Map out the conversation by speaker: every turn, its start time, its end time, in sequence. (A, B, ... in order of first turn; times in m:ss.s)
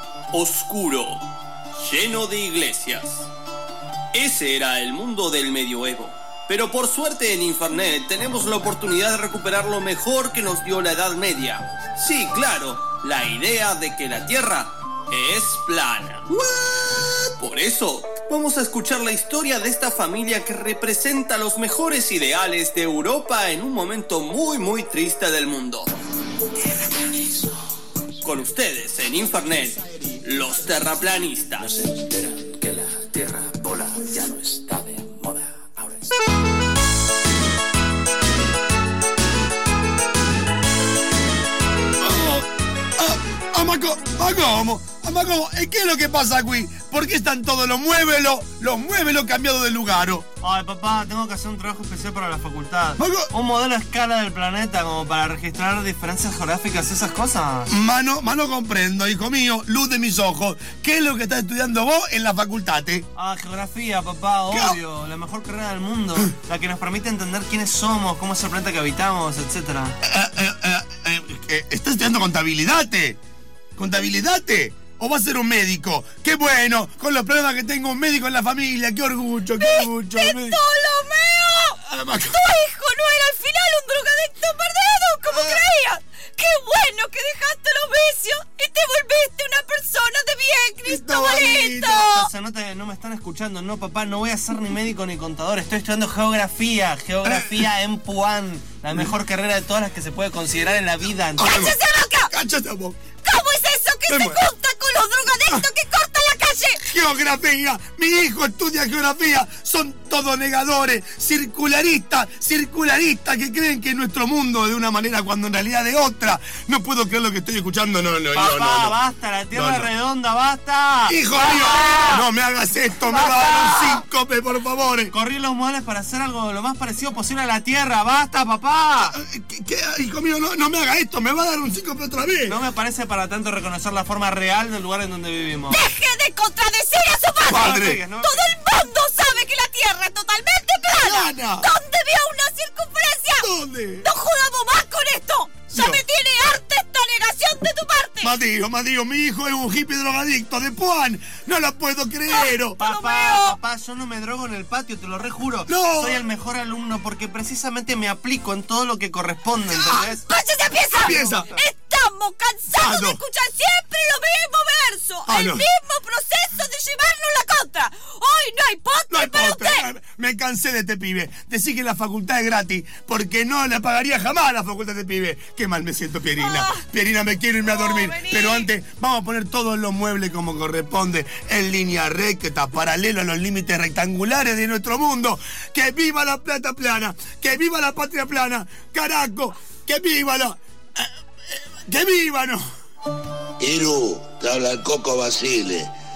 0:00.3-0:01.2 A
0:01.8-0:03.3 A
0:04.1-0:16.4 A
0:17.4-0:25.9 A
0:26.8-0:27.3 B
0:28.2-0:31.7 A
0:31.8-0:36.1 B
0:42.0-0:42.5 C
0:43.0-0:50.3 C
0:50.4-0:57.7 D
0:53.0-0:53.3 C
0:57.7-1:03.1 C
1:03.2-1:10.0 D
1:04.5-1:04.8 C
1:10.0-1:13.2 C
1:13.8-1:20.6 C
1:19.6-1:32.2 E
1:21.8-1:22.4 C
1:25.3-1:25.6 C
1:30.9-1:32.2 C
1:32.1-1:41.6 D
1:37.2-1:37.7 C
1:41.4-1:43.0 C
1:41.4-1:42.3 E
1:43.2-1:46.8 E
1:44.1-1:44.4 C
1:46.8-1:59.0 C
1:58.3-2:02.2 D
1:59.5-1:59.9 C
2:01.1-2:05.1 C
2:01.9-2:02.1 E
2:03.1-2:04.0 D
2:05.1-2:09.2 D
2:09.0-2:12.6 C
2:12.5-2:15.8 D
2:15.7-2:23.5 E
2:17.5-2:18.0 C
2:17.5-2:18.6 D
2:20.9-2:21.7 C
2:23.4-2:24.1 C
2:24.0-2:28.3 E
2:25.7-2:26.0 C
2:28.2-2:32.8 C
2:32.3-2:33.6 E
2:32.8-2:40.2 D
2:35.7-2:36.2 C
2:40.0-2:49.9 E
2:41.0-2:41.5 C
2:42.8-2:43.2 C
2:45.3-2:45.7 C
2:49.1-3:12.6 C
2:56.4-2:56.8 E
2:57.6-2:58.7 E
3:13.6-3:15.9 F